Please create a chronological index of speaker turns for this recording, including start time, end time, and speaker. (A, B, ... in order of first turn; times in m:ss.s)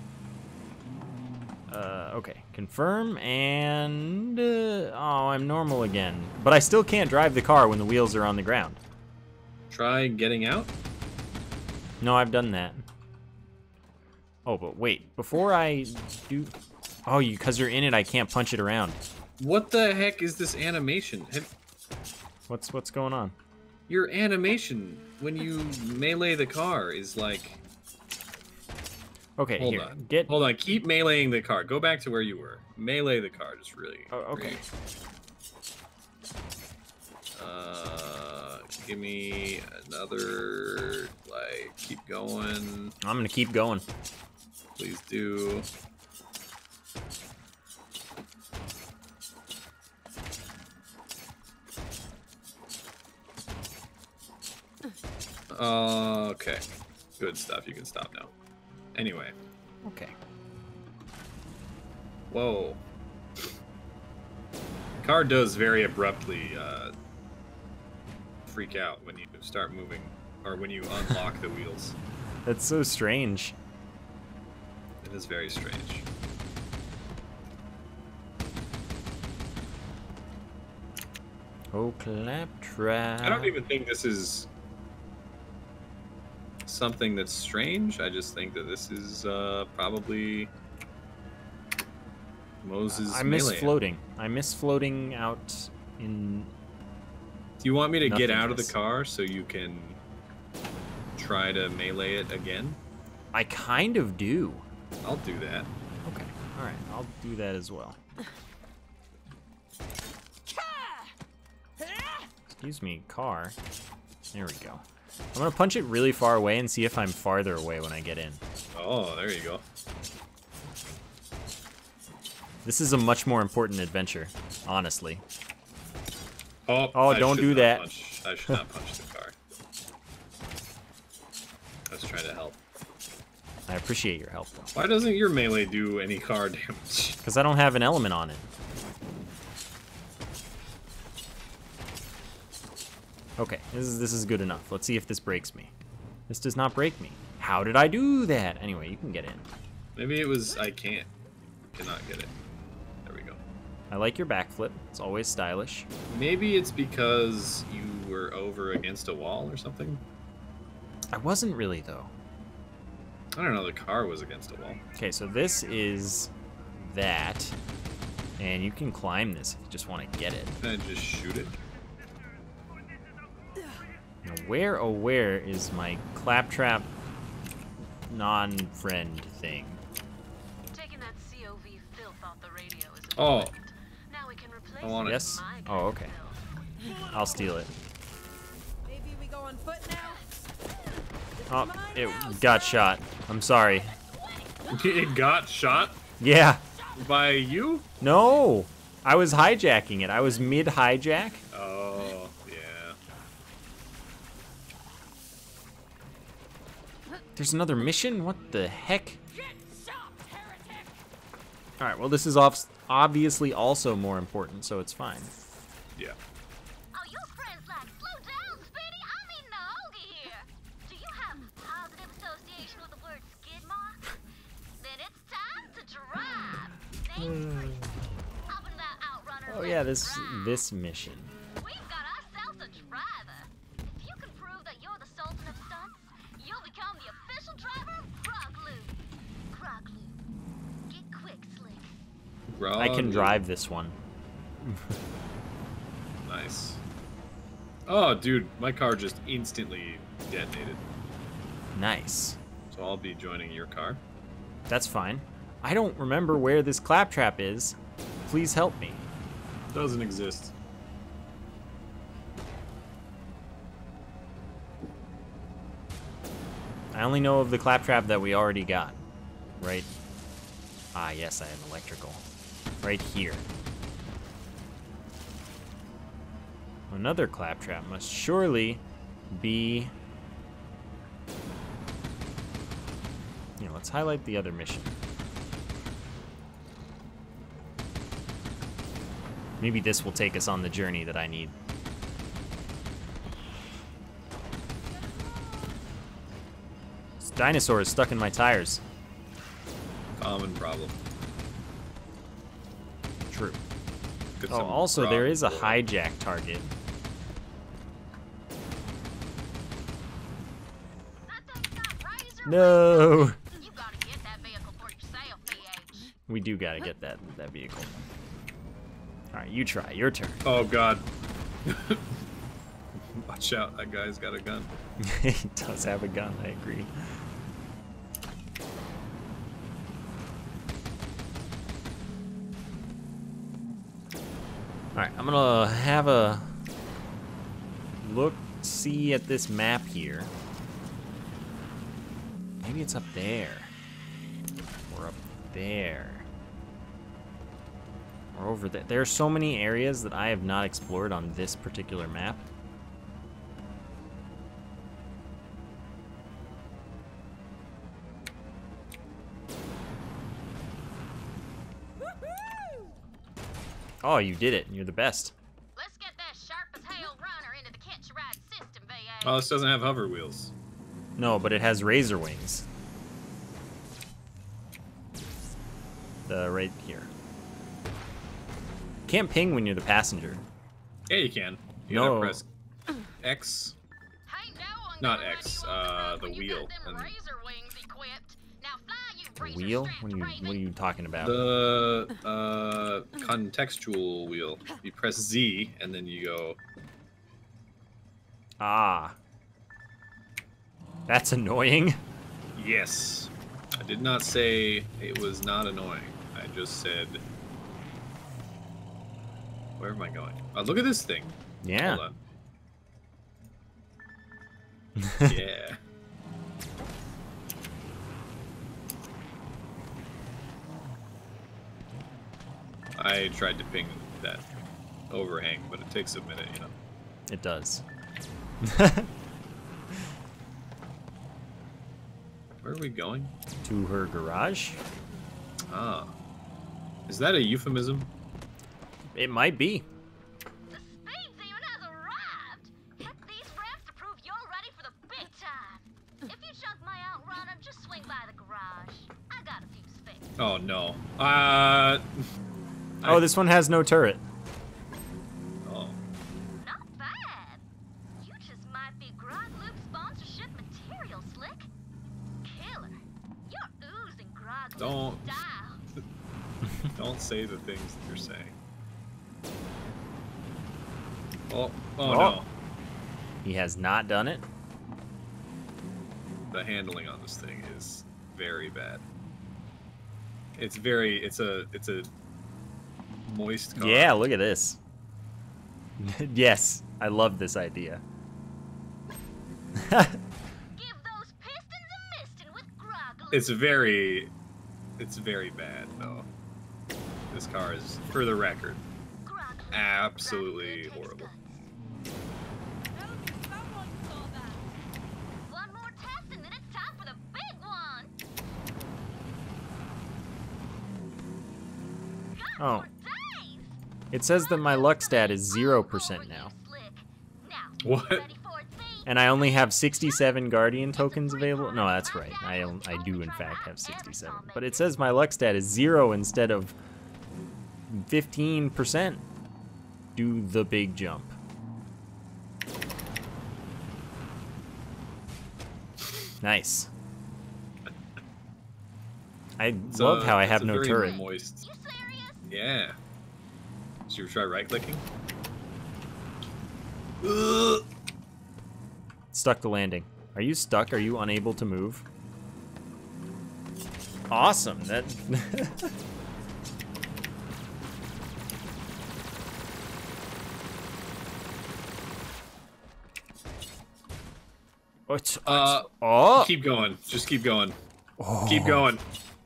0:01.7-0:08.8 A
0:09.7-0:10.7 B
0:12.0-0:12.8 A
0:14.5-0:16.5 A
0:17.1-0:19.0 A
0:19.4-0:21.5 B
0:22.5-0:23.4 A
0:23.9-0:27.6 B
0:29.4-0:30.3 A
0:29.6-0:34.6 B
0:34.1-0:34.6 A
0:37.4-0:43.0 B
0:43.0-0:43.9 A
0:44.8-0:45.7 B
0:55.5-0:56.7 B
0:57.2-0:58.3 B
0:59.0-0:59.4 B
0:59.8-1:00.2 A
1:02.3-1:02.8 B
1:05.0-1:06.9 B
1:08.5-1:12.0 B
1:12.4-1:13.5 A
1:15.0-1:16.0 B
1:21.7-1:23.6 A
1:23.2-1:24.5 B
1:26.7-1:30.5 B
1:32.6-1:33.8 B
1:32.9-1:36.5 A
1:37.6-1:40.0 B
1:38.0-1:38.7 A
1:41.2-1:42.8 B
1:43.3-1:44.6 A
1:45.0-1:45.7 B
1:46.0-1:48.0 A
1:50.6-1:51.0 C
1:51.8-1:52.2 C
1:52.5-1:53.6 A
1:54.3-1:58.4 A
1:58.7-1:59.6 B
2:02.6-2:05.2 A
2:06.7-2:09.4 B
2:06.9-2:07.9 A
2:11.9-2:12.6 B
2:13.7-2:14.7 A
2:14.8-2:17.2 B
2:17.2-2:18.4 A
2:23.4-2:25.7 A
2:26.3-2:29.5 A
2:30.0-2:31.1 B
2:31.7-2:32.3 B
2:33.0-2:33.4 B
2:33.9-2:35.9 A
2:36.1-2:40.0 B
2:41.1-2:42.1 A
2:43.4-2:44.8 B
2:45.0-2:47.6 A
2:48.4-2:50.6 A
2:50.6-2:51.6 B
2:54.2-2:56.9 A
2:58.1-2:59.8 A
3:00.7-3:06.4 D
3:03.2-3:03.5 B
3:04.8-3:05.4 B
3:05.0-3:06.1 A
3:07.1-3:07.7 A
3:08.8-3:10.4 C
3:10.0-3:10.4 D
3:11.4-3:12.6 C
3:11.5-3:14.0 A
3:12.0-3:12.8 D
3:14.0-3:15.0 D
3:14.7-3:16.0 B
3:16.2-3:16.6 A
3:16.8-3:17.0 D
3:17.0-3:17.9 B
3:18.0-3:21.4 A
3:21.5-3:23.0 B
3:27.4-3:29.2 A
3:29.4-3:30.9 D
3:31.8-3:35.3 A
3:36.9-3:44.2 D
3:44.8-3:47.4 D
3:48.5-3:50.6 D
3:49.4-3:51.3 A
3:51.6-3:58.9 D
3:59.5-4:00.2 D
4:00.9-4:01.9 D
4:02.5-4:03.4 B
4:02.8-4:04.0 A
4:04.6-4:04.9 A
4:06.2-4:06.8 B
4:07.9-4:10.8 B
4:11.8-4:12.4 A
4:12.7-4:14.0 B
4:14.7-4:17.8 A
4:18.3-4:19.0 A
4:19.7-4:20.5 B
4:26.9-4:29.0 A
4:29.6-4:29.9 A
4:30.9-4:32.2 A
4:32.8-4:33.4 A
4:36.9-4:39.9 A
4:43.6-4:44.9 A
4:49.6-4:51.5 A
4:55.3-4:55.6 C
4:57.2-4:58.8 A
5:00.2-5:01.0 B
5:03.3-5:03.6 A
5:04.4-5:05.8 B
5:04.5-5:06.7 A
5:11.2-5:16.2 D
5:12.5-5:13.4 A
5:16.3-5:17.9 A
5:19.3-5:20.4 A
5:20.4-5:21.1 B
5:21.6-5:22.0 B
5:23.2-5:24.7 B
5:25.0-5:27.2 A
5:35.0-5:36.5 A
5:38.0-5:40.3 A
5:42.6-5:43.7 A
5:44.9-5:46.3 A
5:48.3-5:52.5 A
6:04.0-6:05.3 A
6:05.8-6:09.7 D
6:09.2-6:10.5 B
6:11.2-6:12.6 A
6:16.3-6:17.1 A
6:19.1-6:20.4 A
6:21.1-6:22.5 B
6:21.9-6:22.4 A
6:23.2-6:23.8 B
6:24.3-6:30.6 D
6:25.0-6:27.1 B
6:29.4-6:31.4 A
6:31.2-6:36.6 B
6:38.6-6:39.2 A
6:41.1-6:42.0 A
6:42.6-6:47.2 B
6:49.8-6:52.2 B
6:51.6-6:52.0 A
6:55.0-6:55.4 A
6:55.3-6:55.8 B
7:03.0-7:04.5 B
7:05.1-7:06.7 B
7:07.3-7:07.8 A
7:08.6-7:09.1 A
7:12.6-7:13.3 B
7:13.6-7:14.8 A
7:15.7-7:16.1 B
7:17.1-7:18.1 B
7:19.1-7:19.8 A
7:20.7-7:30.4 D
7:30.4-7:32.1 B
7:33.0-7:33.3 B
7:33.0-7:34.2 A
7:35.6-7:36.0 B
7:36.6-7:37.6 D
7:38.2-7:41.7 D
7:42.4-7:45.9 D
7:44.8-7:45.4 B
7:47.0-7:48.6 B
7:51.5-7:52.5 B
7:52.0-7:52.4 A
7:53.4-7:54.4 A
7:56.5-7:59.0 B
8:00.6-8:02.1 B
8:03.3-8:04.2 B
8:03.8-8:04.8 A
8:06.0-8:08.0 A
8:09.8-8:10.2 A
8:10.7-8:13.6 D
8:13.3-8:14.3 B
8:15.0-8:16.3 B
8:17.3-8:18.8 B
8:19.2-8:21.5 D
8:19.7-8:21.3 B
8:22.9-8:24.6 C
8:25.5-8:28.1 D
8:32.3-8:33.7 D
8:32.6-8:32.9 A
8:34.1-8:36.5 A
8:34.3-8:39.1 D
8:37.8-8:38.3 B
8:39.1-8:46.7 A
8:40.9-8:45.2 D
8:47.9-8:49.2 A
8:50.2-8:51.3 A
8:56.4-8:56.9 A
8:59.6-9:01.3 A
8:59.9-9:01.6 B
9:01.0-9:02.4 D
9:02.5-9:03.0 B
9:04.1-9:05.0 B
9:07.2-9:07.8 B
9:09.3-9:12.0 A
9:14.3-9:15.9 A
9:25.1-9:26.5 A
9:25.5-9:27.8 B
9:28.2-9:28.9 A
9:28.5-9:29.0 B